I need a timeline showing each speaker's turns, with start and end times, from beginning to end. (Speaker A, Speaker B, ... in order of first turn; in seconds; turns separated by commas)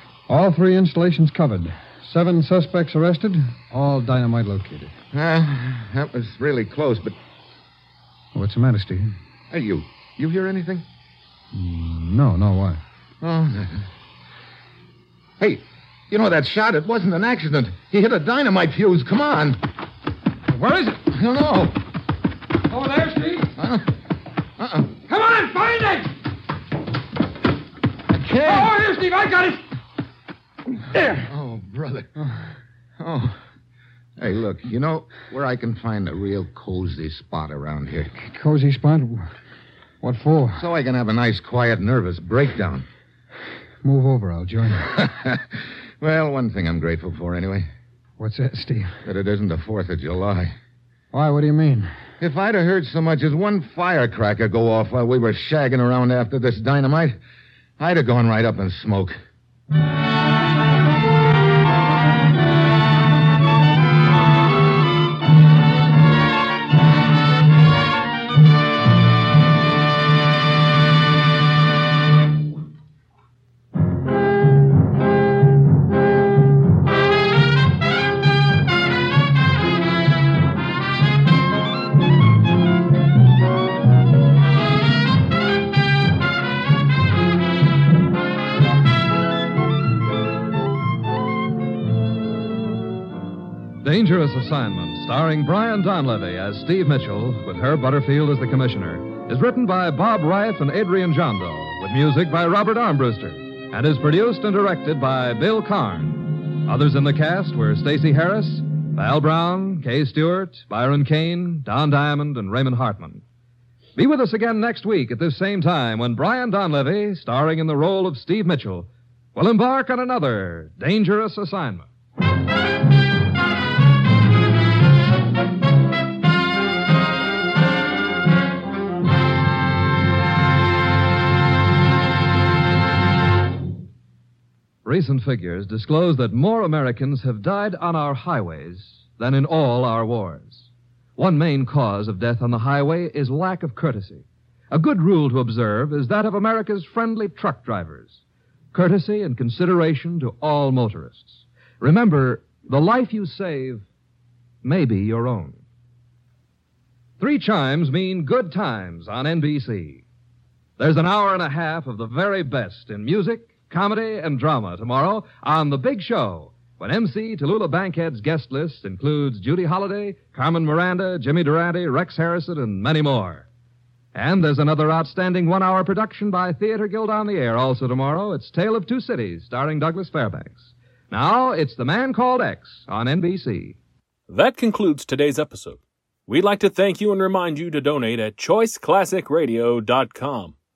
Speaker A: 0.3-4.9, Speaker B: 5.1-7.2, Speaker A: 8.3-9.2, Speaker B: 9.5-10.9, Speaker A: 11.5-12.8, Speaker B: 13.2-13.9, Speaker B: 15.4-19.6, Speaker A: 20.5-21.1, Speaker B: 21.1-21.8, Speaker A: 22.7-23.5, Speaker B: 23.6-23.9, Speaker B: 24.6-24.9, Speaker A: 25.1-26.1, Speaker B: 28.1-28.7, Speaker A: 28.3-29.7, Speaker A: 30.9-31.3, Speaker B: 31.2-32.1, Speaker B: 33.0-33.4, Speaker B: 34.2-38.1, Speaker A: 38.2-39.3, Speaker A: 40.0-40.6, Speaker B: 40.6-42.9, Speaker A: 43.8-45.0, Speaker B: 44.9-47.7, Speaker A: 48.2-49.0, Speaker B: 49.0-50.5, Speaker A: 51.1-51.9, Speaker B: 52.2-57.2, Speaker B: 57.8-59.2, Speaker C: 93.8-113.2, Speaker C: 114.0-121.9, Speaker C: 134.8-148.2, Speaker C: 148.7-153.8, Speaker C: 154.6-155.6, Speaker C: 157.2-160.1, Speaker C: 160.8-173.5, Speaker C: 174.1-183.8, Speaker D: 184.3-190.5